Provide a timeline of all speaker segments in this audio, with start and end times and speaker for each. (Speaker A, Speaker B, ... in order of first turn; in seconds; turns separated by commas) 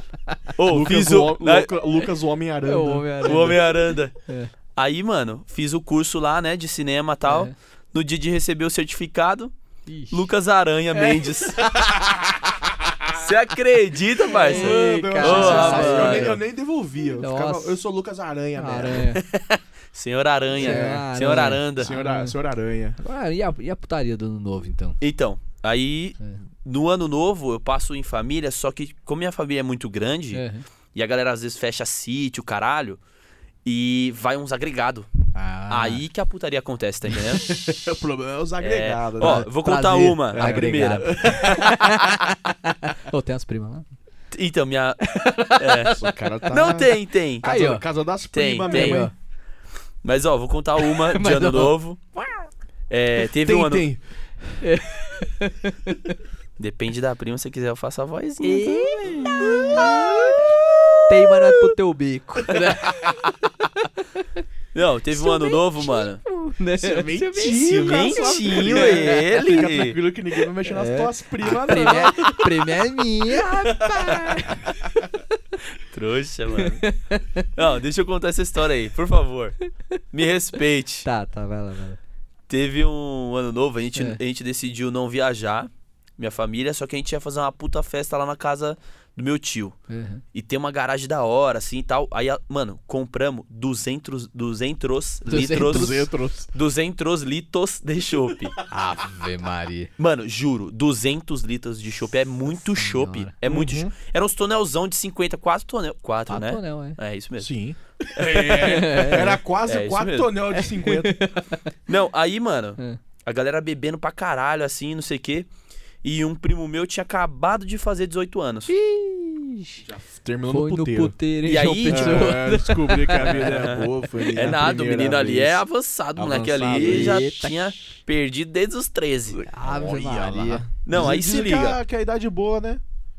Speaker A: 0.6-1.7, Speaker B: 0.7-3.6, Speaker C: 2.6-3.7, Speaker A: 3.2-4.1, Speaker C: 4.2-4.5, Speaker A: 4.8-9.5, Speaker C: 7.2-7.5, Speaker C: 9.9-10.3, Speaker A: 10.1-11.7, Speaker C: 10.9-11.2, Speaker B: 11.6-13.1, Speaker A: 13.1-16.4, Speaker B: 14.3-19.1, Speaker C: 14.3-16.4, Speaker C: 17.2-17.8, Speaker C: 18.6-19.2, Speaker A: 19.1-21.9, Speaker B: 20.6-21.1, Speaker C: 20.6-22.3, Speaker B: 21.8-23.0, Speaker C: 23.0-25.0, Speaker A: 25.0-33.0, Speaker C: 30.3-30.6, Speaker A: 33.6-35.1, Speaker C: 35.3-36.0, Speaker A: 35.7-37.5, Speaker B: 37.4-39.5, Speaker A: 38.6-41.7, Speaker C: 39.2-43.9, Speaker B: 40.3-41.9, Speaker A: 44.3-47.5, Speaker C: 45.0-46.1, Speaker B: 45.9-49.1, Speaker C: 47.4-47.8, Speaker A: 48.3-49.0, Speaker C: 48.6-49.1, Speaker A: 50.0-52.0, Speaker C: 51.0-51.7, Speaker A: 52.9-53.8, Speaker B: 53.4-54.0, Speaker C: 54.6-56.1, Speaker A: 56.6-59.9, Speaker C: 58.4-60.4, Speaker B: 59.5-60.6, Speaker C: 61.1-64.4, Speaker A: 64.7-66.2, Speaker C: 65.1-69.6, Speaker B: 66.8-72.5, Speaker A: 67.6-70.0, Speaker C: 70.6-74.8, Speaker A: 75.8-76.8, Speaker C: 76.5-77.5, Speaker A: 77.5-79.6, Speaker A: 80.1-81.0, Speaker C: 81.0-82.0, Speaker A: 82.5-89.8, Speaker C: 83.9-84.2, Speaker C: 89.9-90.2, Speaker A: 90.3-98.6, Speaker C: 95.3-96.0, Speaker B: 95.5-96.5, Speaker C: 98.7-99.9, Speaker A: 100.0-107.5, Speaker C: 102.7-103.3, Speaker B: 103.4-103.9, Speaker C: 106.3-107.0, Speaker B: 107.4-111.2, Speaker A: 108.2-110.3, Speaker C: 108.5-109.4, Speaker C: 110.5-111.6, Speaker A: 111.9-115.5, Speaker A: 116.0-118.7, Speaker C: 118.7-119.8, Speaker B: 119.8-121.2, Speaker C: 120.5-123.7, Speaker A: 121.4-122.4, Speaker B: 121.8-125.6, Speaker A: 123.1-129.4, Speaker C: 124.2-124.5, Speaker B: 126.2-127.2, Speaker C: 126.7-127.8, Speaker B: 129.3-132.8, Speaker C: 129.5-130.7, Speaker A: 130.8-131.8